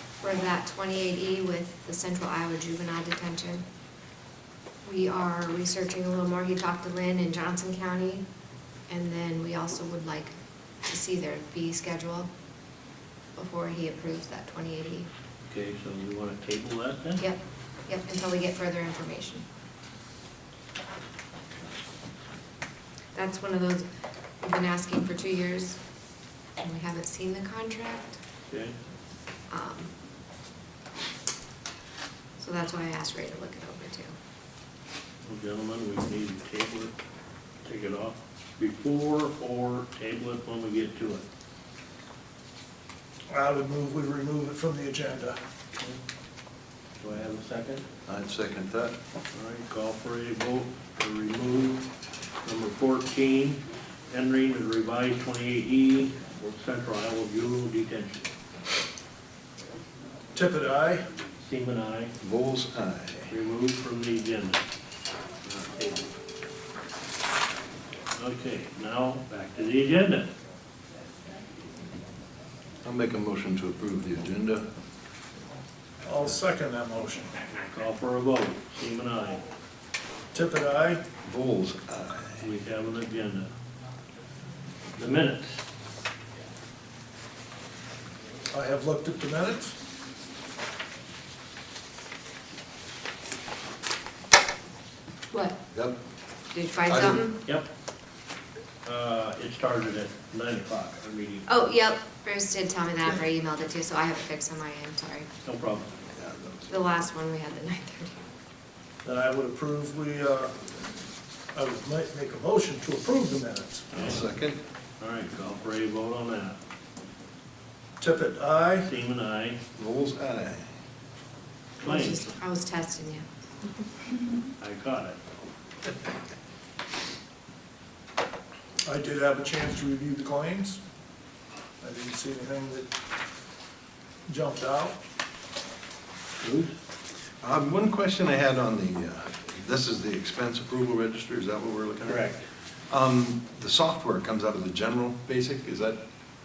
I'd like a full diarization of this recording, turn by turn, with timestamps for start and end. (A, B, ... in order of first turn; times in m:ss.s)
0:00.2-0:03.6 A
0:04.8-0:08.2 A
0:08.9-0:10.3 A
0:10.8-0:12.3 A
0:13.4-0:15.1 A
0:15.5-0:17.2 B
0:17.2-0:19.4 A
0:23.1-0:23.8 A
0:24.4-0:25.8 A
0:26.6-0:28.2 A
0:28.5-0:28.7 B
0:29.5-0:29.9 A
0:32.4-0:34.1 A
0:35.3-0:36.9 B
0:37.6-0:41.2 B
0:43.3-0:45.4 C
0:47.0-0:47.8 B
0:48.0-0:49.0 D
0:49.3-0:51.9 B
0:52.4-0:58.3 B
1:00.3-1:01.0 C
1:01.4-1:02.1 B
1:02.2-1:03.3 D
1:03.3-1:04.6 B
1:05.4-1:06.1 B
1:08.2-1:10.3 B
1:12.8-1:14.6 D
1:16.0-1:17.3 C
1:17.5-1:19.4 B
1:20.3-1:21.0 C
1:21.2-1:22.4 D
1:22.4-1:23.5 B
1:25.0-1:25.6 B
1:28.5-1:29.7 C
1:35.3-1:35.6 A
1:36.5-1:37.4 A
1:36.9-1:37.2 D
1:38.8-1:41.7 B
1:41.5-1:45.3 A
1:45.4-1:45.9 B
1:46.2-1:46.6 D
1:46.7-1:48.2 A
1:49.0-1:50.6 C
1:51.5-1:53.8 C
1:53.9-1:54.2 B
1:54.0-1:54.6 D
1:55.0-1:56.6 B
1:58.0-1:58.9 C
1:58.8-1:59.6 B
1:59.8-2:00.6 D
2:01.8-2:02.3 B
2:01.8-2:03.2 A
2:04.6-2:05.2 B
2:08.8-2:10.8 C
2:11.8-2:12.9 C
2:14.3-2:15.0 C
2:16.4-2:16.7 B
2:17.4-2:22.3 D
2:22.0-2:22.4 B
2:22.9-2:26.0 D